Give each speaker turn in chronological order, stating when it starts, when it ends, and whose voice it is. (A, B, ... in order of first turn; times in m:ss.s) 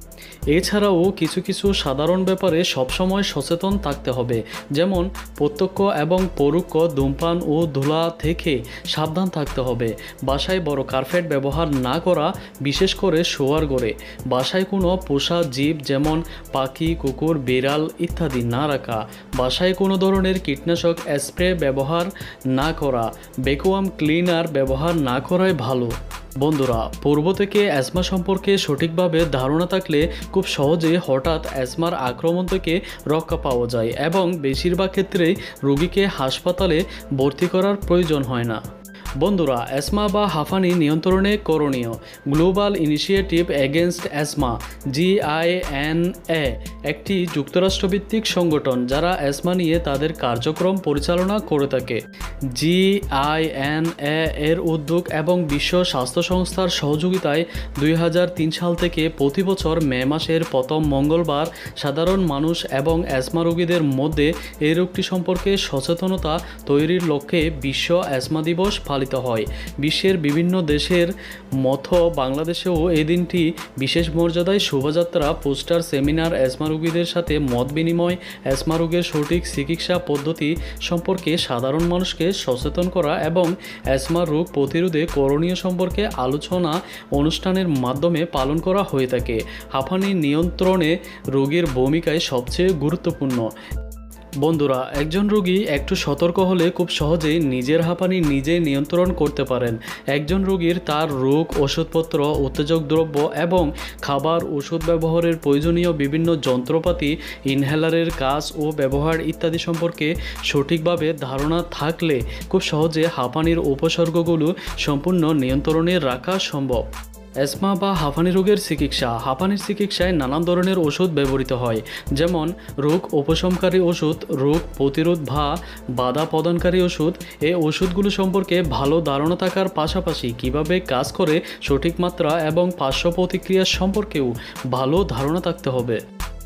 0:00.5-0:38.6 A
0:39.2-0:52.0 A
0:52.5-1:33.5 A
1:34.4-1:56.9 A
1:57.4-2:16.0 A